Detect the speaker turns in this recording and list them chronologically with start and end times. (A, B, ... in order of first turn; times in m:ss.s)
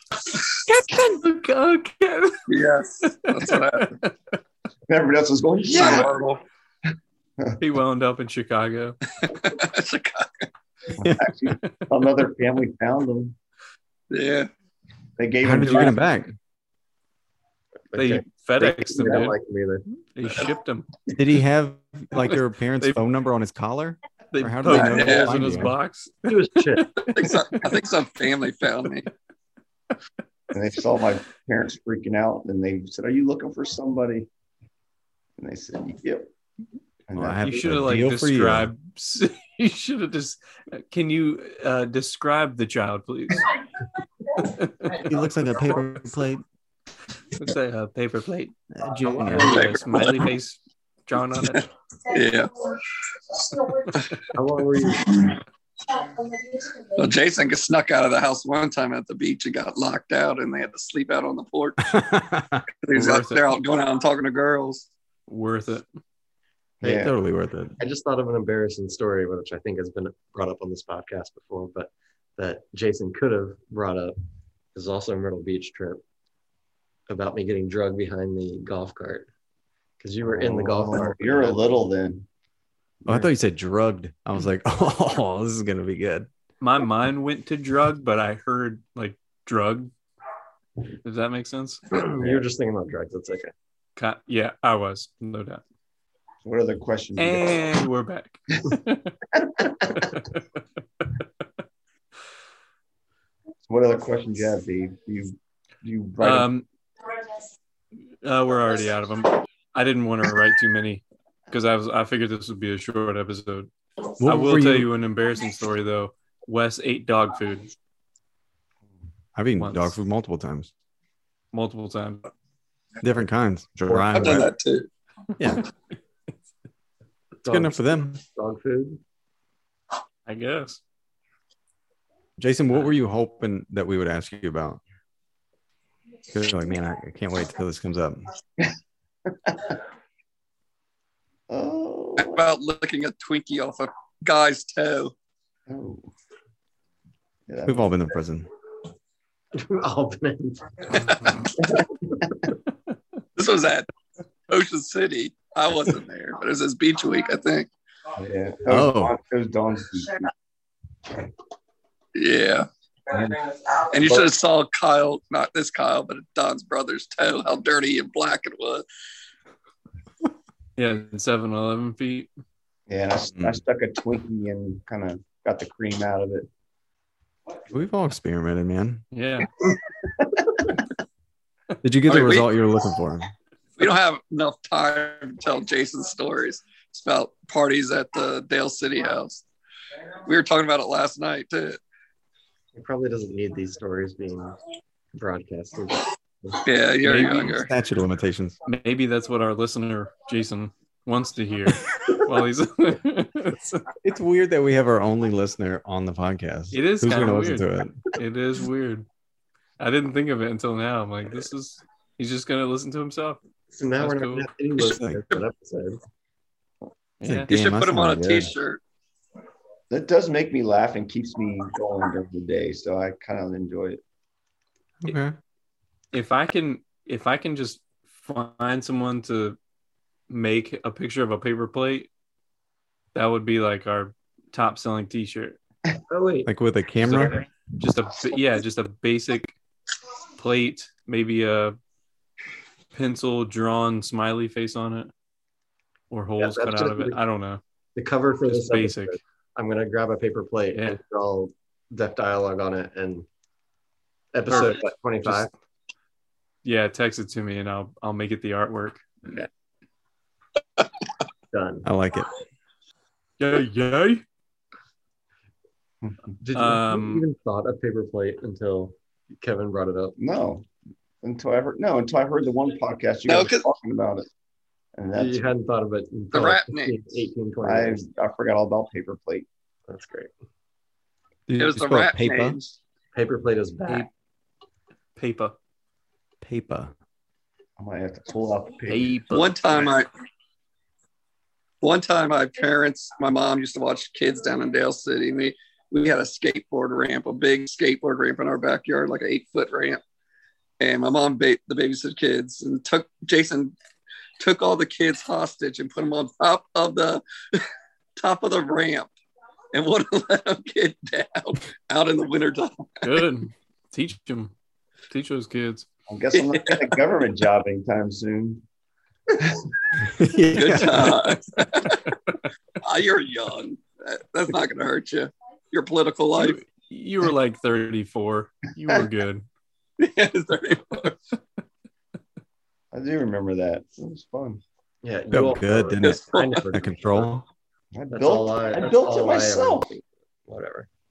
0:00.6-0:02.4 A
0:02.5-0:03.9 B
0:03.3-0:04.1 A
0:04.9-0:06.1 C
0:05.7-0:06.4 B
0:07.6-0:09.0 A
0:09.3-0:10.5 B
0:10.9-0:13.4 C
0:11.0-0:11.3 D
0:14.1-0:14.5 B
0:15.2-0:16.1 C
0:15.4-0:16.3 D
0:17.9-0:19.8 E
0:17.9-0:19.4 A
0:19.9-0:20.9 A
0:21.1-0:25.7 D
0:22.3-0:23.0 A
0:24.3-0:27.3 A
0:24.7-0:25.4 B
0:26.2-0:26.9 E
0:27.0-0:29.1 B
0:30.5-0:34.3 C
0:35.4-0:36.3 C
0:37.1-0:37.8 C
0:37.2-0:38.7 D
0:37.4-0:43.5 A
0:44.4-0:45.0 A
0:44.9-0:46.4 D
0:47.4-0:51.6 A
0:48.7-0:50.2 D
0:49.0-0:49.4 E
0:49.5-0:49.8 B
0:52.1-0:52.5 B
0:54.3-0:55.2 E
0:57.0-1:02.0 B
1:01.8-1:02.6 D
1:02.8-1:04.9 B
1:02.9-1:03.5 A
1:05.3-1:05.9 A
1:06.8-1:07.1 C
1:06.8-1:07.8 D
1:07.8-1:14.2 E
1:14.7-1:16.0 E
1:17.1-1:19.3 E
1:20.0-1:21.6 E
1:20.2-1:22.3 C
1:23.0-1:23.3 C
1:23.0-1:26.3 D
1:26.6-1:29.9 A
1:31.0-1:31.8 A
1:32.0-1:33.5 E
1:32.2-1:32.4 C
1:34.0-1:35.6 A
1:36.4-1:37.7 C
1:37.2-1:39.2 A
1:39.9-1:40.6 A
1:43.7-1:46.5 C
1:46.2-1:46.6 A
1:48.2-1:57.7 A
1:54.2-1:54.9 D
1:59.3-2:00.7 D
1:59.6-2:00.0 A
2:01.5-2:02.2 A
2:03.0-2:04.5 D
2:04.1-2:04.9 B
2:05.4-2:05.6 D
2:07.4-2:09.0 E
2:07.5-2:08.2 D
2:10.3-2:10.8 A
2:12.4-2:14.8 D
2:16.3-2:18.3 D
2:19.3-2:19.7 C
2:21.5-2:22.4 C
2:22.2-2:25.1 B
2:25.7-2:26.0 C
2:27.5-2:28.2 C
2:27.6-2:28.5 D
2:29.5-2:30.9 E
2:30.9-2:31.4 A
2:31.1-2:31.4 B
2:33.4-2:33.9 B
2:34.5-2:37.7 B
2:38.2-2:40.3 C
2:38.7-2:39.2 D
2:42.1-2:42.7 B
2:43.1-2:43.5 C
2:43.9-2:48.8 B
2:50.8-2:52.3 A
2:52.9-2:56.5 C
2:57.7-2:59.0 D
2:59.1-2:59.5 A
3:01.8-3:03.3 D
3:02.0-3:02.5 B
3:03.8-3:09.4 B
3:10.2-3:11.8 B
3:12.7-3:14.6 E
3:15.1-3:16.6 E
3:16.6-3:17.7 B
3:17.0-3:18.6 D
3:18.6-3:23.9 A
3:24.0-3:28.0 D
3:26.7-3:29.1 A
3:29.8-3:33.4 A
3:33.7-3:36.0 E
3:34.0-3:34.5 A
3:34.9-3:35.3 D
3:37.2-3:37.5 A
3:37.2-3:38.5 D
3:37.5-3:38.8 B
3:39.9-3:44.0 C
3:45.0-3:45.4 D
3:46.1-3:49.6 A
3:50.3-3:52.1 A
3:53.1-3:55.6 A
3:56.1-3:56.5 E
3:56.4-3:57.4 D
3:57.0-3:59.5 A
4:00.4-4:01.8 A
4:02.9-4:05.1 A
4:06.1-4:07.6 A
4:06.4-4:07.2 E
4:08.0-4:13.3 E
4:08.4-4:09.2 A
4:14.3-4:15.5 E
4:14.5-4:14.8 A
4:16.6-4:19.0 A
4:21.5-4:21.8 E
4:21.8-4:22.3 D
4:23.4-4:24.2 A
4:26.4-4:30.1 E
4:26.5-4:27.2 A
4:30.2-4:30.7 C
4:31.2-4:34.3 C
4:33.3-4:33.7 B
4:35.0-4:35.6 C
4:35.1-4:38.1 E
4:36.3-4:37.0 B
4:37.6-4:39.5 C
4:39.9-4:40.3 E
4:41.5-4:42.6 D
4:41.6-4:42.8 B
4:43.1-4:44.1 E
4:45.2-4:45.6 A
4:46.4-4:46.9 D
4:47.8-4:49.3 C
4:48.9-4:49.9 A
4:49.3-4:50.1 B
4:51.8-5:00.0 B
5:00.8-5:03.8 B
5:04.4-5:07.6 B
5:08.2-5:09.1 B
5:09.7-5:12.9 B
5:13.0-5:14.5 A
5:15.1-5:15.8 A
5:16.1-5:18.6 C
5:16.3-5:16.8 B
5:19.3-5:19.7 C
5:20.0-5:21.2 D
5:20.5-5:22.0 B
5:22.8-5:26.6 B
5:26.4-5:29.5 A
5:30.0-5:31.2 B
5:32.9-5:34.6 C
5:35.0-5:37.2 E
5:35.3-5:37.4 D
5:36.0-5:36.7 B
5:37.9-5:39.9 C
5:38.1-5:40.9 E